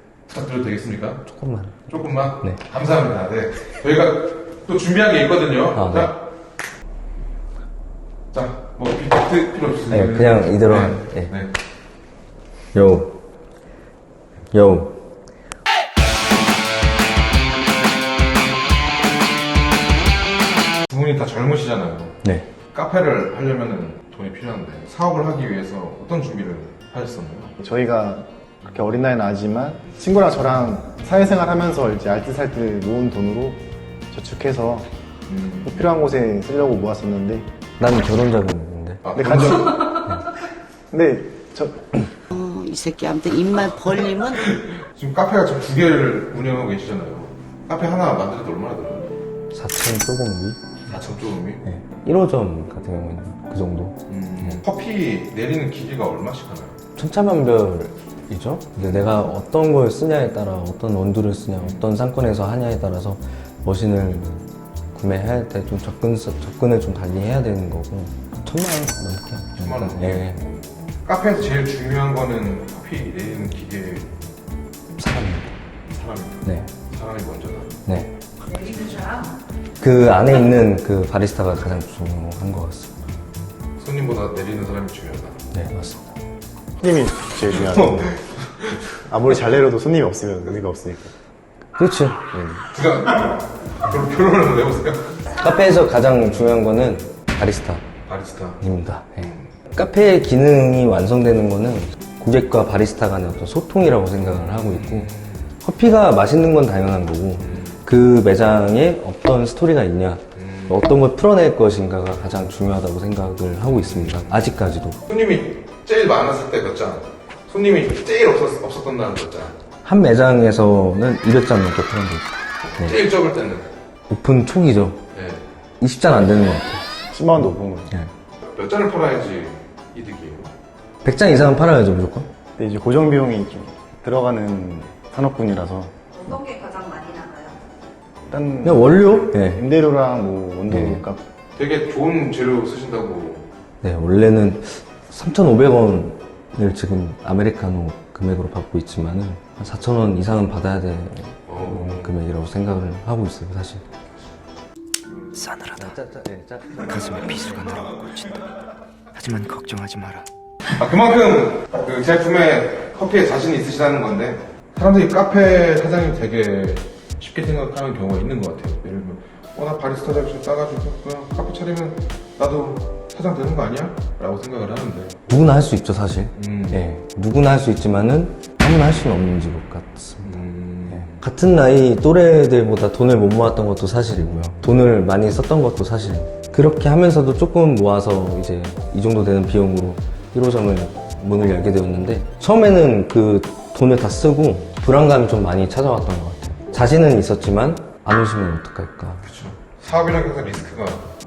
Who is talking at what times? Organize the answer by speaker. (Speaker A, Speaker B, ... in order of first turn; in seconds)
Speaker A: 0.3-1.2, 1.9-6.2, 8.3-11.5, 20.9-22.2, 22.7-27.5, 35.3-35.8, 39.0-40.1, 43.7-49.1, 50.9-51.6, 54.1-56.8, 58.8-59.1, 61.6-61.8, 69.6-74.1, 75.9-77.8, 83.8-85.5, 87.5-89.0, 92.7-95.2, 98.0-98.6, 99.2-99.5, 104.2-105.5, 107.4-107.8, 110.3-110.8, 113.7-114.3, 115.1-119.6, 122.7-123.7, 125.1-125.4, 128.4-130.5, 141.6-143.5, 151.5-152.1, 160.7-175.2, 176.3-176.8, 180.2-181.2, 199.2-201.1
Speaker B: 1.2-1.9, 5.7-6.1, 9.9-11.3, 12.7-13.2, 14.5-14.9, 37.8-39.0, 39.8-40.2, 49.5-50.6, 51.6-54.6, 57.0-70.4, 75.0-75.5, 77.9-78.1, 79.8-83.0, 85.5-86.1, 91.8-92.7, 95.3-97.8, 98.6-115.0, 119.8-123.0, 124.1-125.0, 125.8-126.8, 131.0-132.3, 138.6-139.6, 140.7-141.0, 143.8-153.8, 155.7-157.7, 175.3-199.2
Speaker C: 27.6-34.9, 35.6-37.5, 39.1-39.8, 40.9-42.0, 86.8-88.2, 89.1-91.1, 127.1-127.9, 132.6-135.9, 138.3-141.2
Speaker D: 42.3-44.4
Speaker E: 78.5-79.3, 136.2-137.6
Speaker F: 155.3-155.9, 156.8-158.3, 159.1-160.2